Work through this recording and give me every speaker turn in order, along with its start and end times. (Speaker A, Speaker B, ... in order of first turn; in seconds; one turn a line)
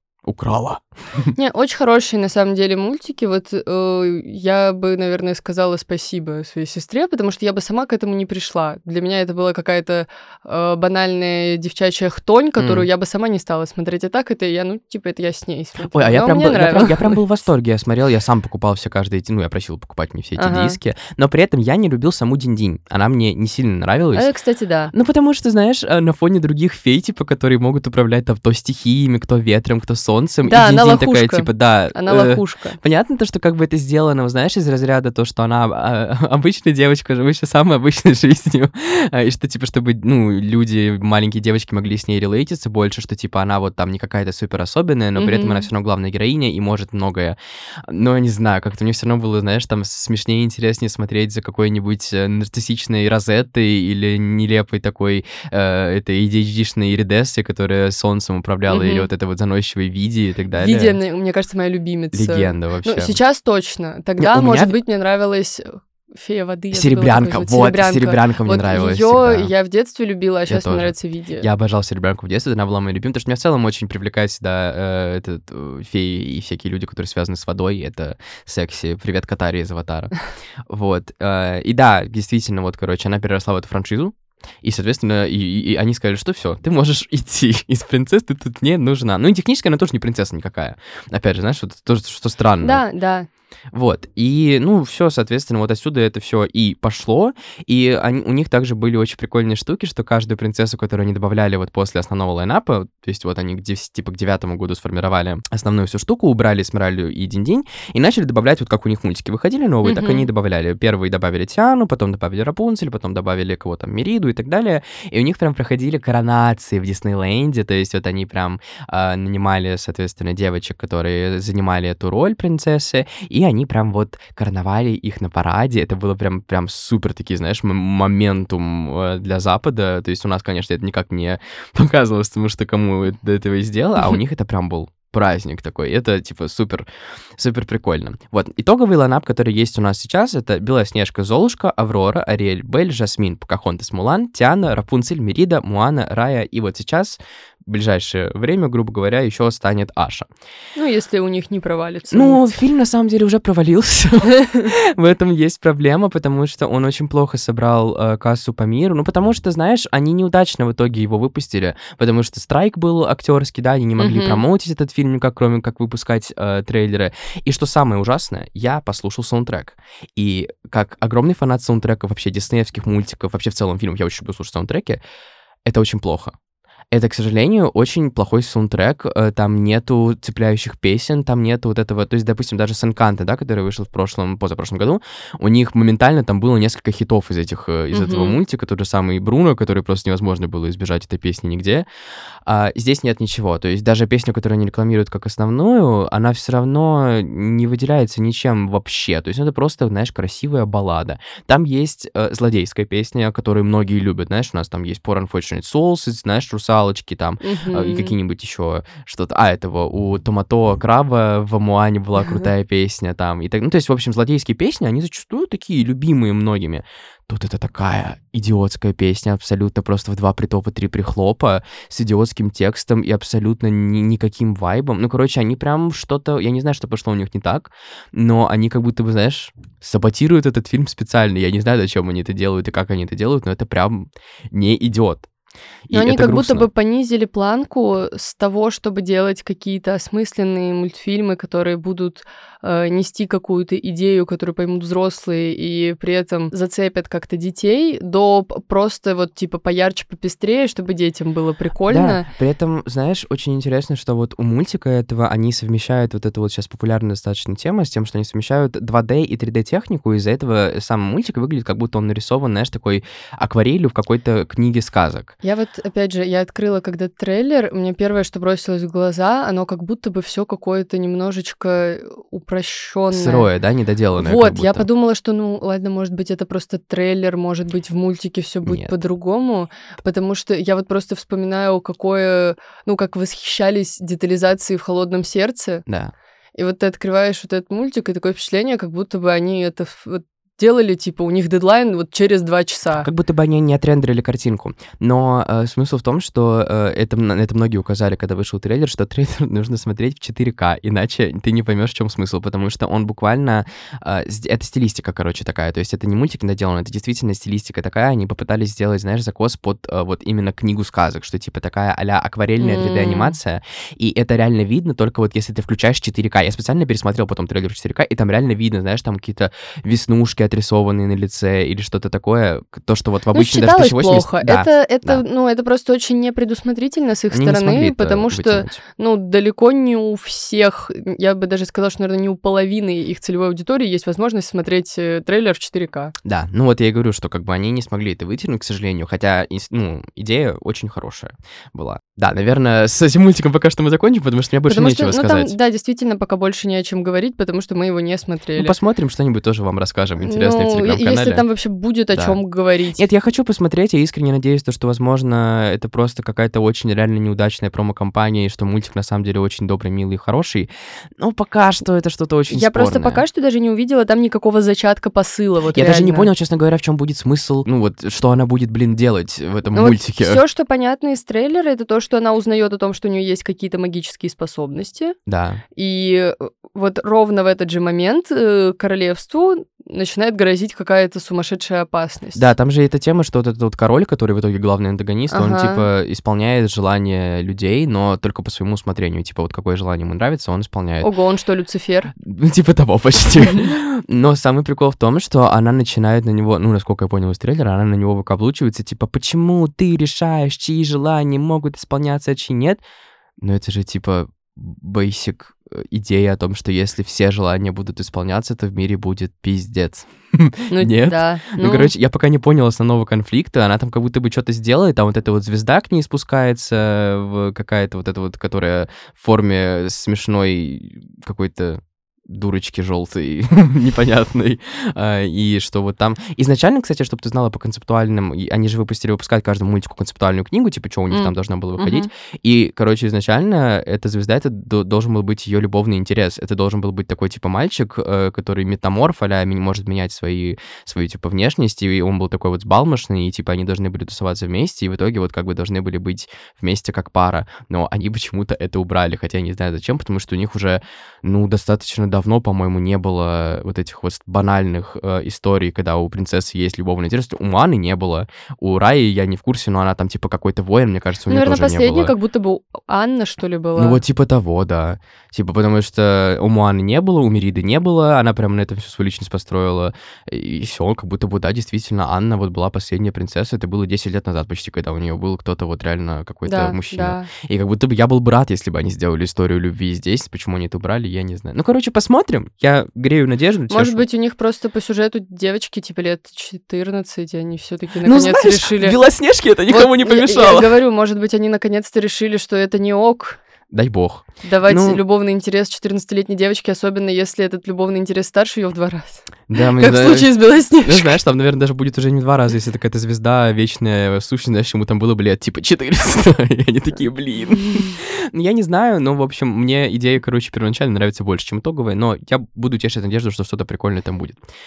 Speaker A: 0.2-1.3
Speaker B: 1.4-17.2
Speaker A: 12.6-12.9
Speaker A: 15.9-24.3
Speaker B: 20.4-20.8
Speaker B: 24.1-24.9
Speaker A: 24.9-61.0
Speaker B: 30.5-32.8
Speaker B: 45.2-45.7
Speaker B: 58.7-59.1
Speaker B: 60.5-71.5
Speaker A: 62.1-63.2
Speaker A: 64.2-64.8
Speaker A: 66.7-69.5
Speaker A: 70.5-80.1
Speaker A: 80.7-92.8
Speaker B: 92.6-93.3
Speaker A: 93.7-150.3
Speaker B: 109.8-110.3
Speaker B: 150.8-152.5
Speaker A: 152.1-175.0
Speaker B: 164.0-164.4
Speaker A: 175.7-176.3
Speaker A: 176.9-191.9
Speaker B: 187.9-188.4
Speaker A: 192.5-235.3
Speaker B: 207.4-208.1
Speaker A: 235.9-236.7
Speaker B: 235.9-252.3
Speaker A: 251.9-265.3
Speaker B: 265.4-273.5
Speaker A: 273.1-274.9
Speaker B: 274.1-285.8
Speaker A: 278.6-278.9
Speaker A: 285.9-286.1
Speaker B: 286.6-293.1
Speaker A: 293.0-325.2
Speaker B: 312.6-313.4
Speaker B: 323.3-336.1
Speaker A: 327.3-328.8
Speaker A: 336.2-345.6
Speaker B: 344.7-348.8
Speaker A: 348.6-351.4
Speaker B: 350.2-353.0
Speaker A: 352.1-352.4
Speaker A: 353.0-360.7
Speaker A: 361.2-363.2
Speaker B: 362.5-366.3
Speaker A: 365.7-370.4
Speaker B: 369.7-375.1
Speaker A: 375.3-375.6
Speaker B: 375.8-382.4
Speaker A: 382.4-391.1
Speaker B: 385.3-385.9
Speaker B: 391.0-392.1
Speaker A: 392.2-402.8
Speaker A: 403.4-462.1
Speaker B: 410.7-411.9
Speaker B: 431.1-432.1
Speaker B: 461.3-464.0
Speaker A: 463.8-484.0
Speaker B: 476.4-477.3
Speaker B: 483.7-489.0
Speaker A: 488.0-490.7
Speaker B: 489.7-493.4
Speaker A: 493.7-495.0
Speaker B: 494.4-501.2
Speaker A: 499.5-514.4